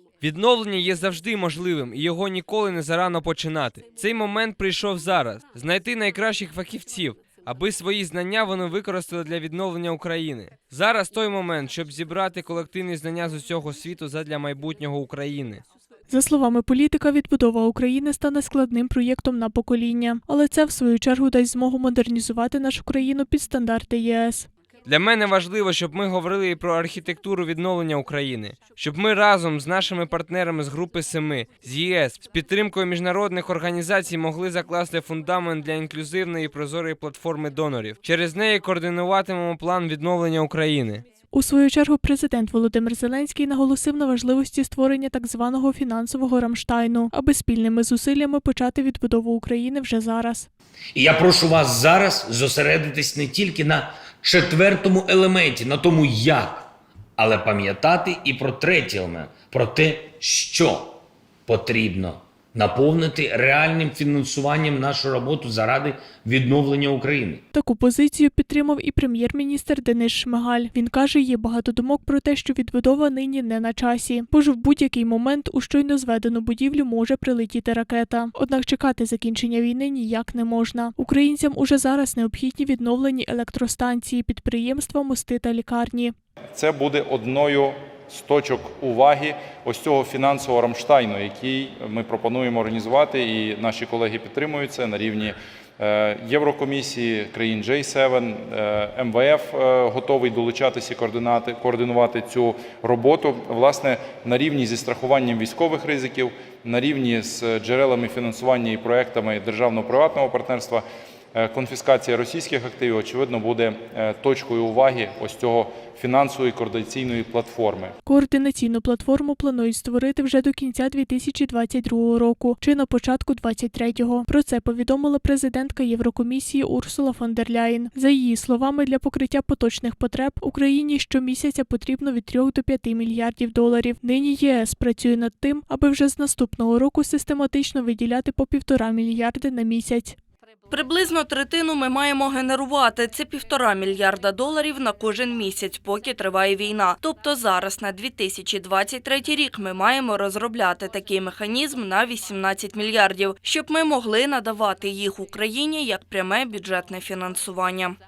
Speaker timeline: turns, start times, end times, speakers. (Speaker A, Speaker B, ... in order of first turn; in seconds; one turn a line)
Speaker A: 0.2-15.6
Speaker B: 16.1-24.5
Speaker A: 24.9-41.0
Speaker B: 41.3-50.5
Speaker C: 50.9-67.4
Speaker B: 67.5-86.1
Speaker D: 86.5-117.9
Speaker B: 118.1-140.2
Speaker E: 140.7-157.9